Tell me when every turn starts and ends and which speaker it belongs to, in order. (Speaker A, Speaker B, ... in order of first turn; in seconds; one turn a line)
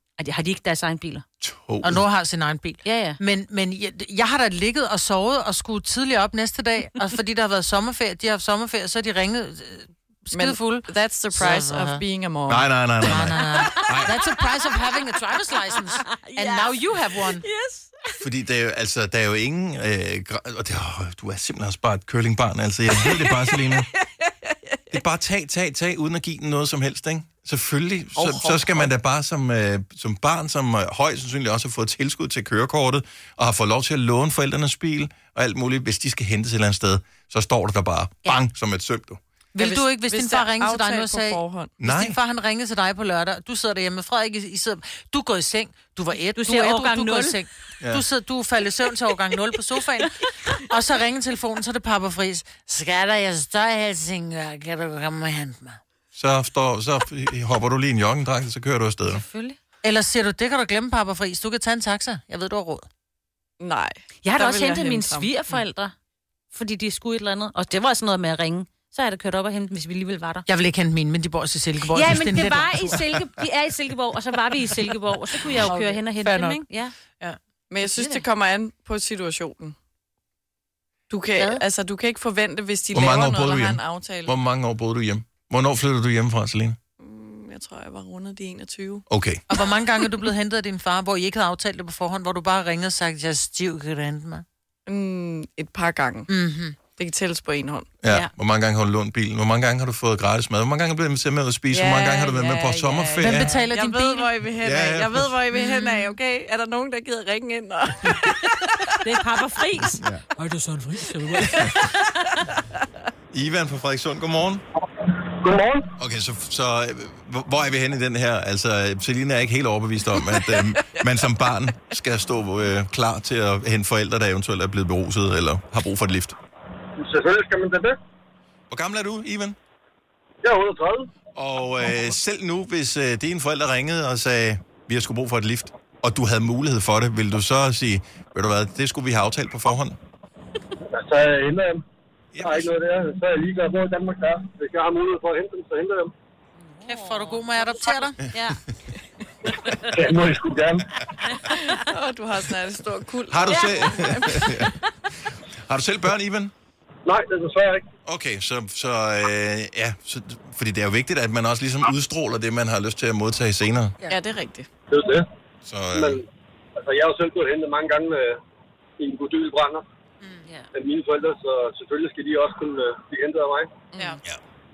Speaker A: 0.2-1.2
Speaker B: 1.4-2.0
Speaker C: 1.8-12.0
Speaker A: 2.9-3.2
Speaker D: 10.3-13.3
Speaker B: 12.5-14.2
Speaker C: 13.0-17.4
Speaker A: 16.0-16.8
Speaker D: 17.2-18.3
Speaker B: 18.2-23.9
Speaker D: 23.0-25.0
Speaker B: 24.9-39.2
Speaker D: 28.2-28.9
Speaker C: 39.5-55.8
Speaker D: 39.6-41.8
Speaker B: 41.8-42.2
Speaker A: 46.3-47.4
Speaker B: 56.1-59.2
Speaker A: 59.1-59.6
Speaker C: 59.8-62.9
Speaker D: 63.6-65.4
Speaker A: 64.2-65.9
Speaker A: 66.5-70.5
Speaker C: 70.5-73.0
Speaker A: 71.9-77.0
Speaker C: 75.5-77.4
Speaker D: 77.7-79.8
Speaker A: 77.9-78.2
Speaker D: 81.1-84.4
Speaker B: 82.9-86.8
Speaker D: 87.0-89.1
Speaker B: 89.1-89.5
Speaker C: 89.5-94.4
Speaker D: 94.9-96.3
Speaker C: 96.3-96.8
Speaker D: 96.9-97.9
Speaker B: 98.0-103.5
Speaker D: 101.7-109.0
Speaker C: 103.2-104.3
Speaker B: 104.6-105.3
Speaker C: 105.5-106.1
Speaker A: 109.0-112.5
Speaker B: 110.0-110.3
Speaker D: 111.2-112.0
Speaker B: 113.3-114.6
Speaker E: 115.4-115.9
Speaker B: 116.0-126.3
Speaker D: 120.2-121.0
Speaker E: 127.0-128.0
Speaker B: 128.7-129.6
Speaker E: 130.4-131.1
Speaker B: 131.3-140.0
Speaker E: 140.9-141.8
Speaker B: 142.3-142.7
Speaker E: 142.4-146.1
Speaker A: 146.6-148.6
Speaker C: 146.8-148.3
Speaker D: 149.5-149.7
Speaker E: 149.9-151.1
Speaker A: 151.3-151.6
Speaker D: 151.5-154.7
Speaker B: 153.3-154.7
Speaker A: 153.5-154.4
Speaker B: 155.3-156.5
Speaker E: 157.1-157.9
Speaker B: 158.1-164.0
Speaker D: 164.1-164.7
Speaker E: 164.9-165.3
Speaker B: 165.7-166.2
Speaker E: 165.9-166.2
Speaker E: 166.8-168.4
Speaker E: 169.0-169.8
Speaker E: 170.7-173.8
Speaker D: 173.9-174.2